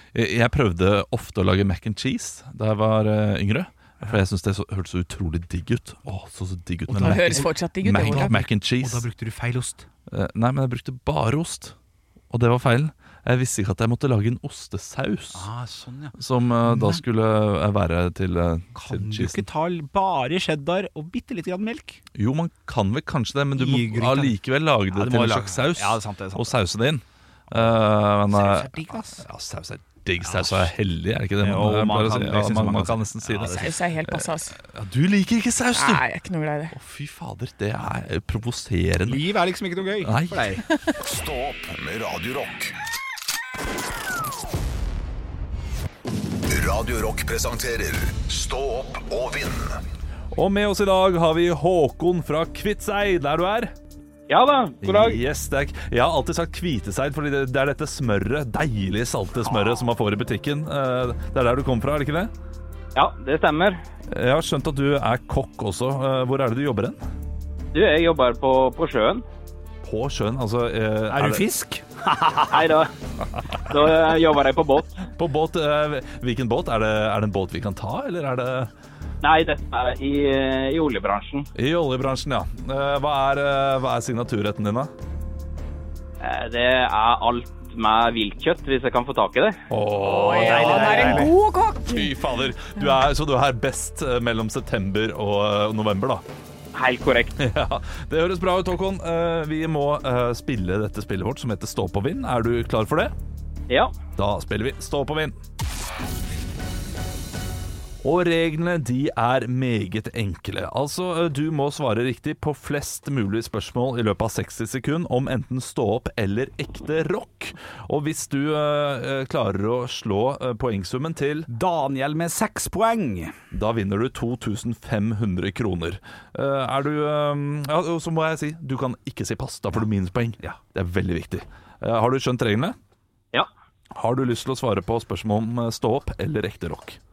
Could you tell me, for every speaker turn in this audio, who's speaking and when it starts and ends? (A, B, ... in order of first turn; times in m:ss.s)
0:00.1-0:09.0 A
0:06.9-0:09.8 B
0:07.0-0:08.3 C
0:10.1-0:11.7 A
0:12.3-0:15.5 A
0:15.3-0:17.0 B
0:16.2-0:19.4 A
0:18.7-0:22.0 B
0:22.2-0:36.0 A
0:23.6-0:24.3 B
0:24.9-0:26.5 B
0:27.5-0:27.8 B
0:28.3-0:29.2 B
0:30.2-0:30.7 B
0:31.4-0:33.7 B
0:33.4-0:34.6 C
0:35.8-0:36.7 C
0:36.7-0:39.2 A
0:39.1-0:40.6 B
0:40.0-0:40.5 A
0:41.0-0:42.7 D
0:46.5-0:49.8 D
0:50.3-0:53.7 A
0:54.3-0:55.2 E
0:54.8-1:02.3 A
1:02.9-1:03.8 E
1:04.1-1:07.0 A
1:07.7-1:09.2 E
1:09.8-1:11.4 A
1:11.1-1:12.6 B
1:12.5-1:12.9 E
1:13.7-1:15.0 E
1:15.0-1:18.7 A
1:19.2-1:21.5 E
1:21.5-1:24.9 A
1:26.2-1:29.6 E
1:29.7-1:31.3 A
1:30.1-1:32.1 C
1:30.2-1:31.3 B
1:31.8-1:36.2 A
1:36.7-1:37.4 E
1:37.4-1:43.1 A
1:44.2-1:45.4 A
1:48.0-2:01.5 A
2:01.5-2:03.3 B
2:03.5-2:12.8 A
2:13.9-2:17.0 A